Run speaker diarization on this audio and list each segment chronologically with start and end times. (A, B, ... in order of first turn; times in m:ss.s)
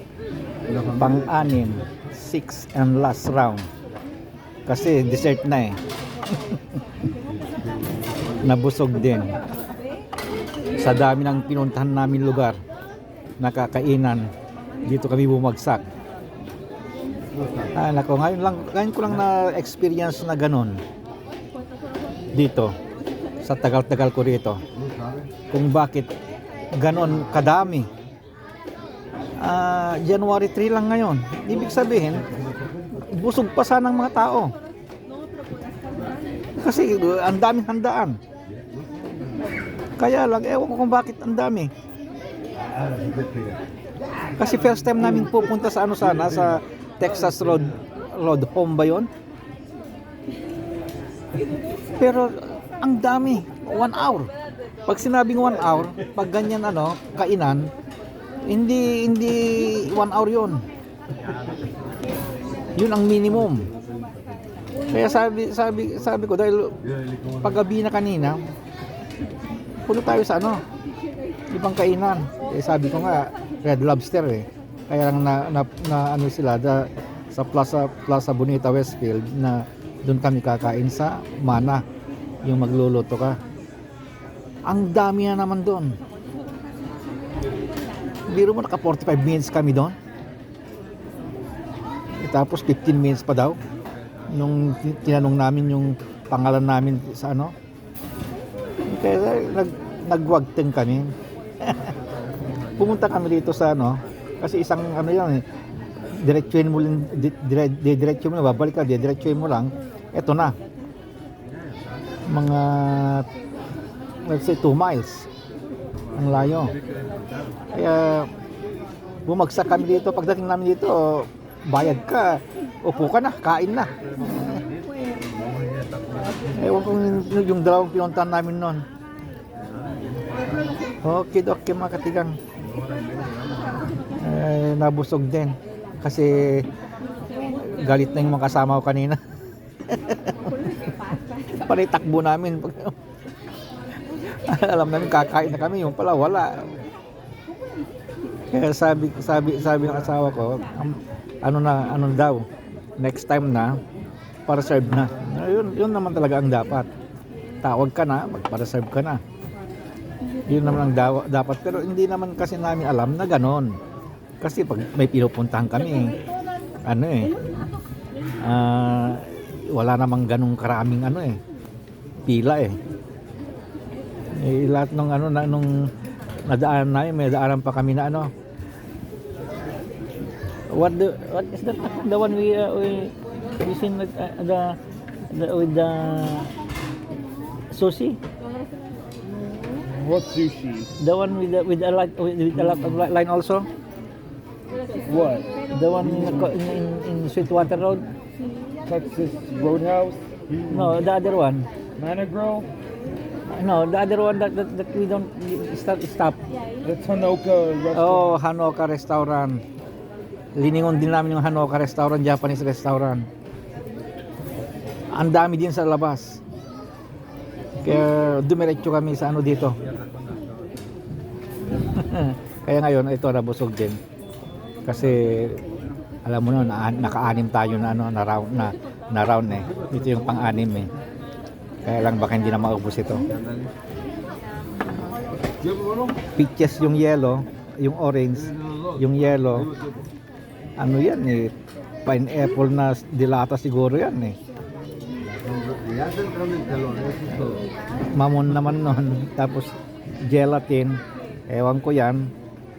0:00.9-0:03.7 A
0:04.7-0:05.8 A
0:06.3-0:06.8 A
0:08.4-0:09.3 A
0:10.8-0:12.6 A
0:13.4-0:14.3 A
0:14.8-0:15.8 A
0:17.7-0:20.8 A
0:22.3-0:22.7 A
0:23.4-0:24.6 A
0:25.5-0:26.1 A
0:26.8-0:27.9 A
0:29.4-0:32.2 A
0:33.1-0:34.5 A
0:36.6-0:38.2 A
0:40.0-0:41.7 A
0:44.4-0:49.1 A
0:52.0-0:54.3 A
0:54.8-0:57.7 A
0:58.4-1:00.6 A
1:02.8-1:03.7 A
1:04.9-1:06.8 A
1:07.4-1:08.4 A
1:09.8-1:10.6 A
1:11.5-1:21.8 A
1:22.4-1:23.4 A
1:24.7-1:26.0 A
1:28.3-1:29.9 A
1:32.2-1:33.6 A
1:34.3-1:37.5 A
1:38.9-1:41.9 A
1:42.8-1:45.4 A
1:46.2-1:50.5 A
1:52.3-1:53.3 A
1:54.2-1:55.3 A
1:56.2-1:56.7 A
1:57.7-1:58.3 A
1:59.3-2:04.6 A
2:06.6-2:08.8 A
2:11.0-2:12.4 A
2:14.2-2:16.6 A
2:17.5-2:19.2 A
2:19.9-2:20.9 A
2:21.5-2:22.9 A
2:24.3-2:26.7 A
2:28.5-2:32.4 A
2:33.0-2:33.8 A
2:34.5-2:36.9 A
2:37.6-2:39.2 A
2:40.5-2:43.8 A
2:44.4-2:46.2 A
2:46.8-2:47.3 A
2:48.4-2:51.4 A
2:52.2-2:52.8 A
2:54.4-2:55.9 A
2:56.4-2:58.3 A
3:00.7-3:04.8 A
3:05.3-3:06.5 A
3:07.7-3:08.2 A
3:09.9-3:10.9 B
3:11.0-3:13.7 A
3:15.0-3:15.5 B
3:15.7-3:18.1 A
3:18.8-3:20.6 B
3:20.7-3:21.7 A
3:22.0-3:22.7 B
3:23.5-3:26.4 A
3:26.8-3:28.3 B
3:27.9-3:29.6 A
3:30.6-3:33.3 A
3:35.1-3:36.4 A
3:37.8-3:39.8 A
3:41.8-3:44.0 A
3:44.8-3:45.6 A
3:46.2-3:50.9 A
3:51.8-3:53.3 A
3:56.4-3:59.7 A
4:00.8-4:01.5 A
4:02.0-4:04.4 A
4:08.1-4:09.7 A
4:10.2-4:12.3 A